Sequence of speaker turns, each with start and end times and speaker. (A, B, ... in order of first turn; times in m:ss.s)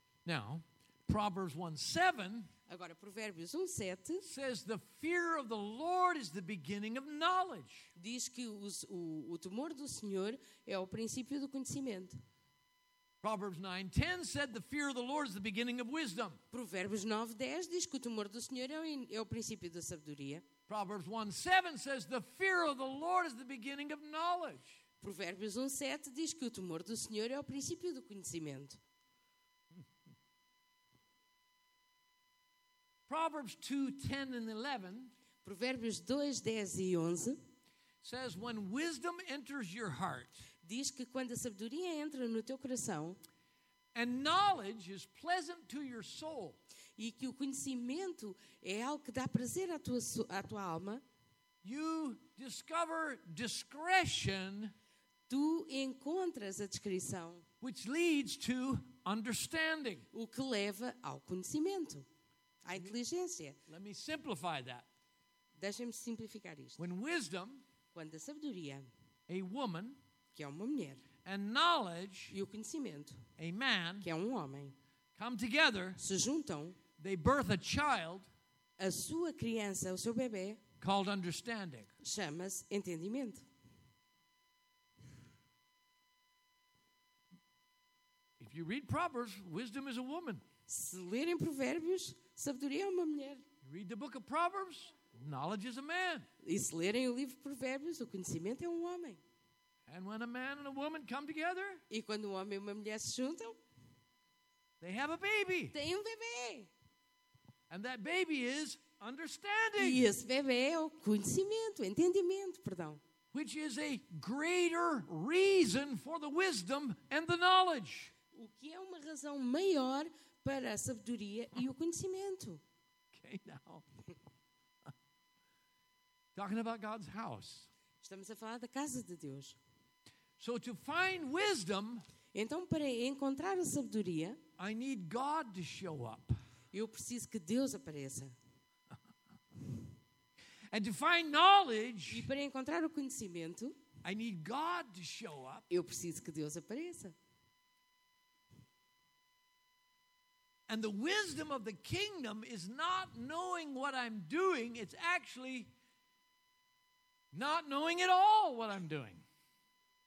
0:00.2-0:02.5 A
0:02.7-0:04.3 B
0:04.2-0:07.9 A
0:08.0-0:12.2 B
0:13.2-0:16.4 A
0:16.5-0:20.4 B
0:20.7-0:24.8 A
0:25.0-0:28.8 B
0:33.1-0:35.1 A
0:35.4-0:37.4 B
0:38.0-0:40.4 A
0:40.6-0:43.2 B
0:43.9-0:46.6 A
0:47.0-0:51.0 B
0:51.6-0:54.7 A
0:55.3-0:57.4 B
0:57.6-1:00.0 A
1:00.1-1:02.1 B
1:02.6-1:03.6 B
1:03.7-1:04.8 A
1:05.6-1:06.8 B
1:06.8-1:07.6 A
1:07.9-1:08.9 B
1:09.3-1:10.0 A
1:10.3-1:11.0 B
1:11.2-1:12.4 A
1:12.3-1:13.2 B
1:13.4-1:14.1 A
1:14.0-1:14.8 B
1:15.1-1:16.0 A
1:16.0-1:16.8 B
1:17.0-1:18.3 A
1:18.8-1:20.6 B
1:20.8-1:21.9 A
1:22.0-1:23.4 B
1:28.4-1:30.4 A
1:30.7-1:33.4 B
1:33.6-1:36.3 A
1:36.4-1:39.2 B
1:39.9-1:41.8 A
1:41.9-1:43.6 B
1:44.8-1:45.8 A
1:45.7-1:46.7 B
1:47.7-1:50.1 A
1:49.8-1:53.0 B
1:53.3-1:58.1 A
1:58.3-2:02.6 B
2:03.1-2:03.8 A
2:06.3-2:07.7 A
2:08.0-2:09.6 B
2:10.4-2:12.0 A
2:12.3-2:14.4 B
2:14.6-2:16.4 A
2:16.7-2:18.4 B
2:20.7-2:22.3 A
2:22.1-2:23.8 B
2:24.0-2:25.7 A
2:25.7-2:27.2 B
2:30.7-2:35.7 A
2:37.3-2:39.2 A